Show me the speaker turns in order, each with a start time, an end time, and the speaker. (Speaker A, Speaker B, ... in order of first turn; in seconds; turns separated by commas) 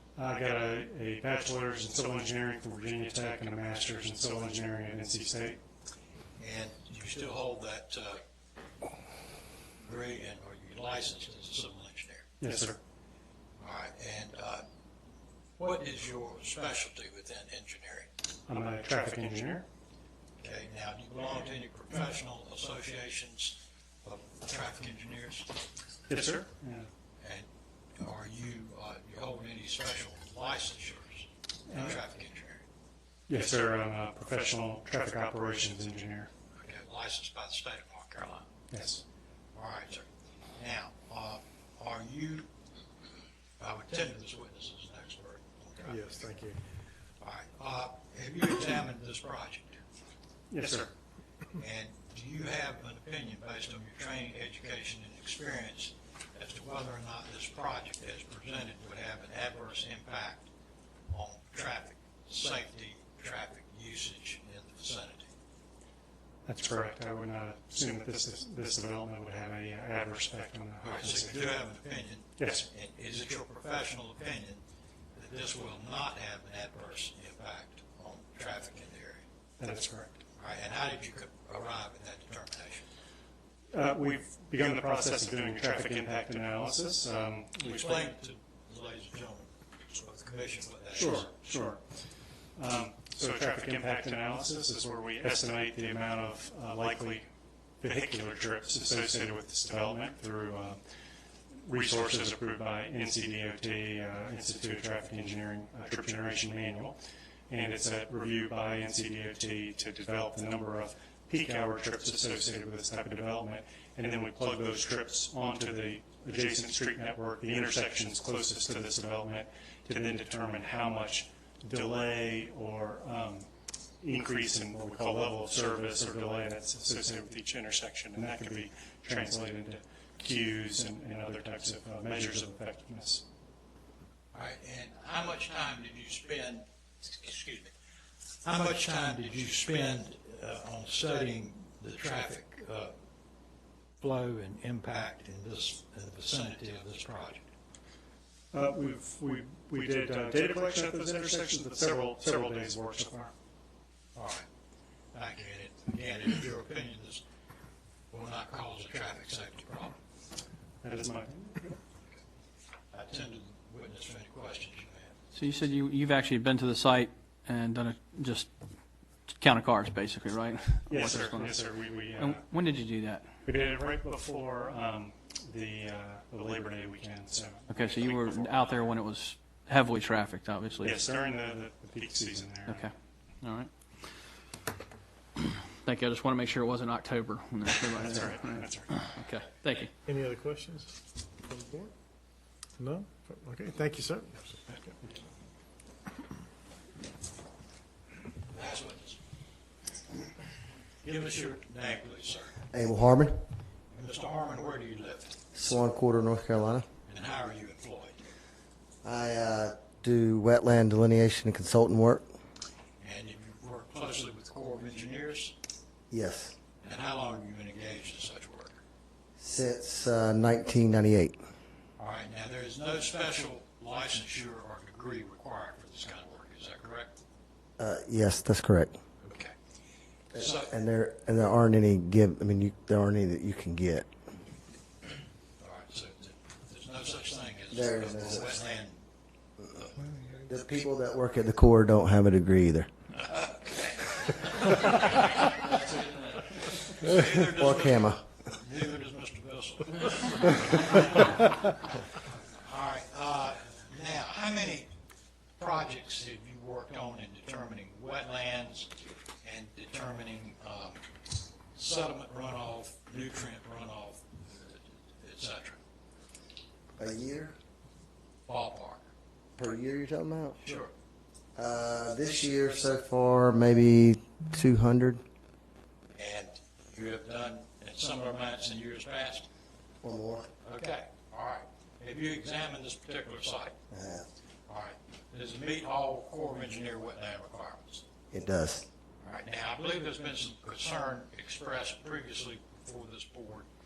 Speaker A: 0.1-5.6, Speaker B: 6.4-8.2, Speaker B: 9.8-12.3, Speaker A: 12.4-12.8, Speaker B: 13.6-14.6, Speaker B: 15.6-18.1, Speaker A: 18.5-19.6, Speaker B: 20.4-25.5, Speaker A: 26.1-26.9, Speaker B: 27.2-32.6, Speaker A: 31.7-32.0, Speaker A: 33.3-36.3, Speaker B: 36.5-38.5, Speaker A: 38.7-39.0, Speaker B: 39.5-42.5, Speaker B: 43.6-46.3, Speaker C: 45.9-46.6, Speaker B: 47.2-49.8, Speaker A: 50.5-50.9, Speaker B: 51.5-60.5, Speaker B: 61.1-65.3, Speaker A: 66.5-71.5, Speaker B: 70.8-74.6, Speaker A: 72.4-72.6, Speaker B: 75.2-79.2, Speaker A: 79.6-80.2, Speaker B: 80.4-82.8, Speaker A: 83.7-88.1, Speaker B: 87.6-91.6, Speaker A: 90.9-91.8, Speaker A: 92.5-97.2, Speaker A: 97.8-100.8, Speaker A: 101.5-107.0, Speaker A: 107.5-123.5, Speaker A: 124.0-133.2, Speaker B: 134.3-137.7, Speaker B: 138.4-142.9, Speaker B: 144.0-147.4, Speaker A: 148.5-153.3, Speaker B: 154.1-154.5, Speaker B: 155.1-157.2, Speaker B: 158.1-159.9, Speaker A: 160.8-161.7, Speaker B: 162.9-165.2, Speaker D: 165.3-168.5, Speaker D: 169.3-173.3, Speaker A: 170.9-172.4, Speaker A: 173.4-178.7, Speaker D: 177.7-181.0, Speaker A: 180.8-182.9, Speaker D: 182.7-183.7, Speaker D: 185.7-189.9, Speaker A: 188.0-189.0, Speaker C: 190.1-191.9, Speaker C: 192.8-195.0, Speaker B: 198.5-199.2, Speaker B: 201.0-202.6, Speaker E: 202.7-203.3, Speaker B: 203.9-205.4, Speaker E: 205.5-206.8, Speaker B: 207.1-208.2, Speaker E: 209.0-212.2, Speaker B: 213.0-215.5, Speaker E: 216.1-216.5, Speaker B: 216.8-218.8, Speaker E: 219.4-221.4, Speaker B: 222.0-227.2, Speaker E: 227.8-228.9, Speaker B: 229.2-229.5, Speaker E: 230.3-234.1, Speaker B: 230.3-230.7, Speaker B: 235.6-239.0, Speaker E: 237.7-238.4, Speaker E: 240.4-242.9, Speaker B: 243.2-251.6, Speaker E: 247.5-248.2, Speaker B: 252.6-254.9, Speaker B: 255.6-258.9, Speaker B: 259.4-261.0, Speaker B: 261.7-265.8, Speaker E: 267.0-267.6, Speaker B: 268.5-269.1, Speaker E: 269.6-270.8, Speaker B: 270.6-270.9, Speaker E: 271.6-275.2, Speaker B: 276.1-279.5, Speaker E: 280.0-280.5, Speaker B: 280.6-283.8, Speaker E: 283.9-284.2, Speaker B: 284.7-288.0, Speaker E: 288.3-288.9, Speaker B: 289.2-293.7